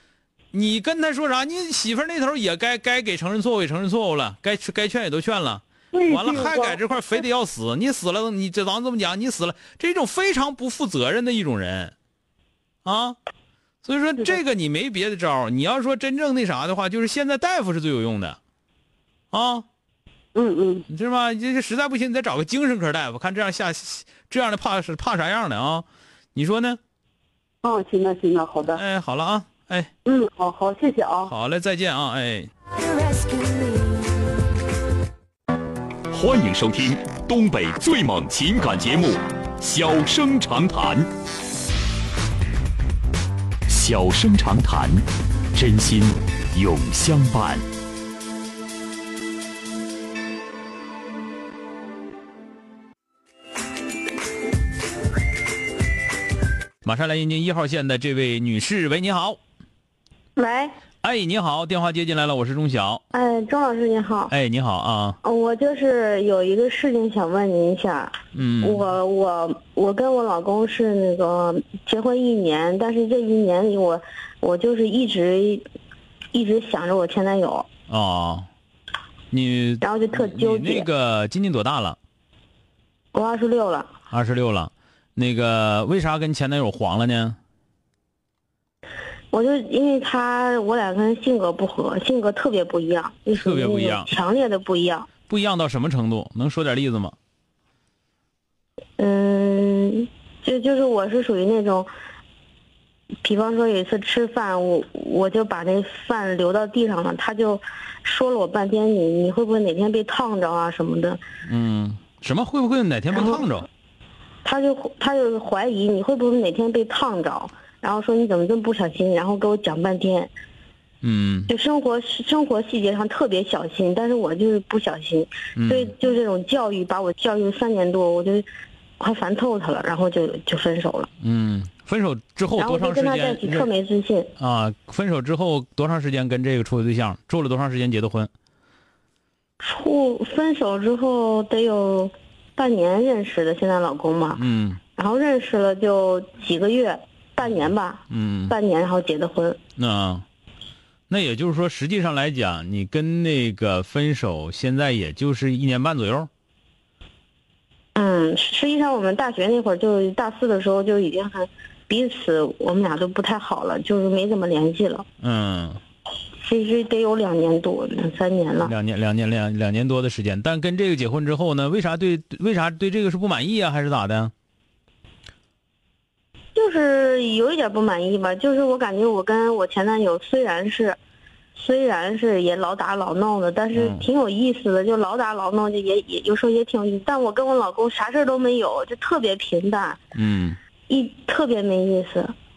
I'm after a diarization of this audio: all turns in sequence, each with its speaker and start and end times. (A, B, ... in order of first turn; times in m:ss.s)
0:00.5-0:11.9 A
0:05.9-0:07.1 B
0:12.8-0:13.2 A
0:13.8-0:18.4 A
0:19.3-0:19.6 A
0:20.3-0:20.8 B
0:20.9-0:26.8 A
0:27.6-0:28.8 B
0:28.7-0:29.9 A
0:30.0-0:31.3 B
0:31.3-0:32.5 A
0:36.1-0:41.1 C
0:43.7-0:47.6 C
0:56.8-0:59.4 A
1:00.4-1:00.7 D
1:01.0-1:03.0 A
1:03.1-1:04.3 D
1:04.3-1:05.2 A
1:05.2-1:15.6 D
1:08.3-1:08.8 A
1:16.3-1:17.7 D
1:17.9-1:18.5 A
1:19.3-1:22.0 A
1:19.8-1:20.9 D
1:23.1-1:23.9 D
1:24.1-1:27.4 A
1:29.3-1:35.1 D
1:33.4-1:34.1 A
1:35.3-1:37.1 A
1:39.0-1:41.9 D
1:43.2-1:51.2 D
1:51.4-1:53.7 A
1:53.1-1:53.4 D
1:54.4-2:00.3 D
2:01.0-2:01.5 A
2:01.5-2:08.5 D
2:05.6-2:05.9 A
2:09.0-2:11.1 D
2:11.2-2:13.7 A
2:12.6-2:14.3 D
2:14.4-2:18.3 A
2:19.6-2:24.4 D
2:24.3-2:24.8 A
2:25.0-2:29.6 D
2:28.1-2:28.6 A
2:29.8-2:30.2 A
2:31.1-2:36.3 A
2:37.9-2:45.0 D
2:45.2-2:45.8 A
2:46.4-2:48.7 D
2:48.6-2:54.3 A
2:56.5-3:01.0 D
3:01.6-3:10.0 D
3:03.7-3:04.0 A
3:10.1-3:10.6 A
3:10.9-3:12.3 D